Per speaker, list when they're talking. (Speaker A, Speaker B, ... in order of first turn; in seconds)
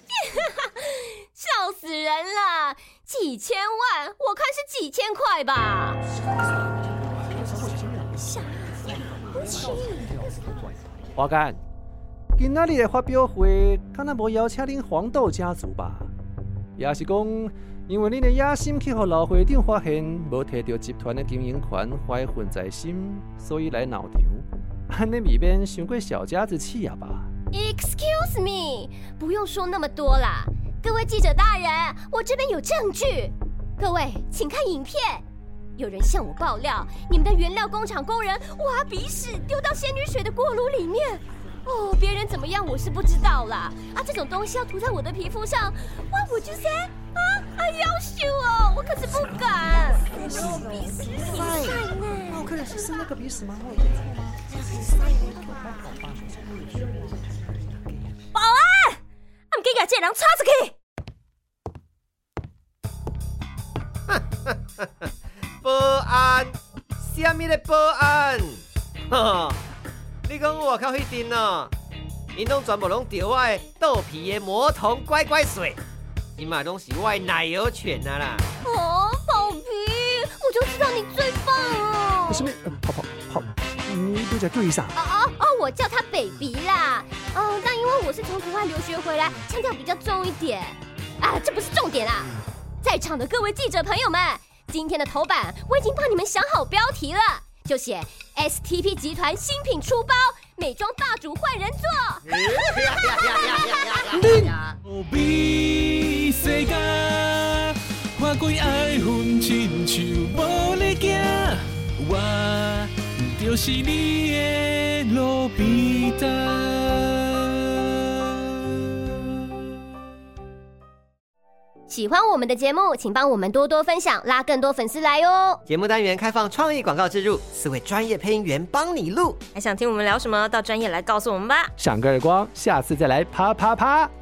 Speaker A: 0.2-6.0, 27.5-35.2, 35.8-51.2, 78.6-82.5, 85.0-92.3, 92.8-104.2, 121.9-125.6
Speaker B: 7.1-10.3, 11.2-11.6, 12.4-16.1, 16.8-27.3, 49.1-49.6, 50.2-57.2, 82.3-85.0, 131.8-134.1
Speaker C: 50.3-52.5, 58.3-59.0, 59.5-60.8, 129.5-131.7
Speaker D: 64.1-65.1, 65.6-69.6, 70.2-71.7, 72.3-75.8, 76.4-78.5, 102.3-104.7, 125.7-129.4
Speaker E: 104.1-119.1